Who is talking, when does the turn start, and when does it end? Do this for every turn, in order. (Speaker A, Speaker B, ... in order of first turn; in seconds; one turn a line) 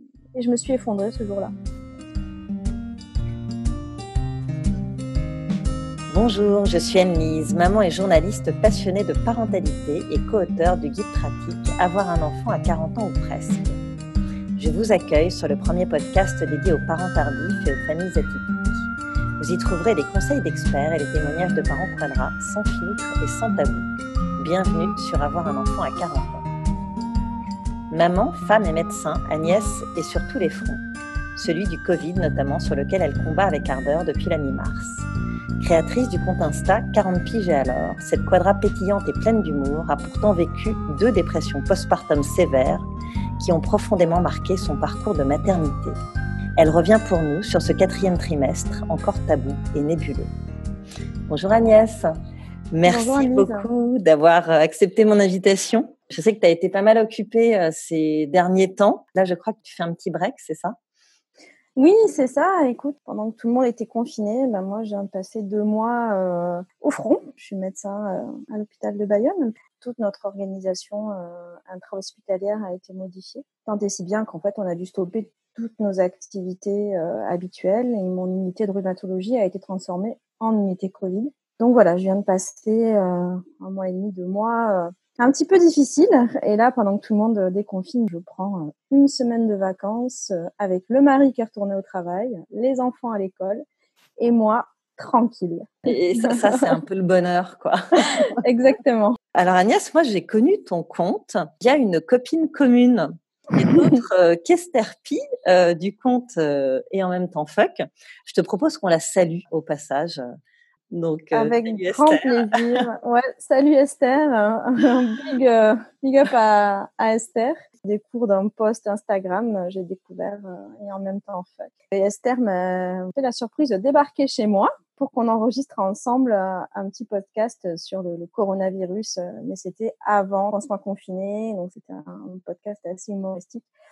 Speaker A: 0.3-1.5
Speaker B: 6.1-13.8
Speaker B: 14.6-18.9
Speaker B: 19.4-26.4
Speaker B: 27.9-30.8
Speaker B: 31.4-35.0
Speaker B: 35.6-42.9
Speaker B: 43.4-46.0
Speaker B: 46.6-50.3
Speaker B: 51.3-52.1
Speaker B: 52.7-60.8
Speaker A: 52.9-53.7
Speaker A: 61.8-93.6
Speaker A: 94.2-96.8
Speaker B: 95.9-98.3
Speaker A: 98.1-99.2
Speaker B: 99.3-110.2
Speaker A: 103.7-104.0
Speaker B: 110.9-112.8
Speaker A: 111.3-133.7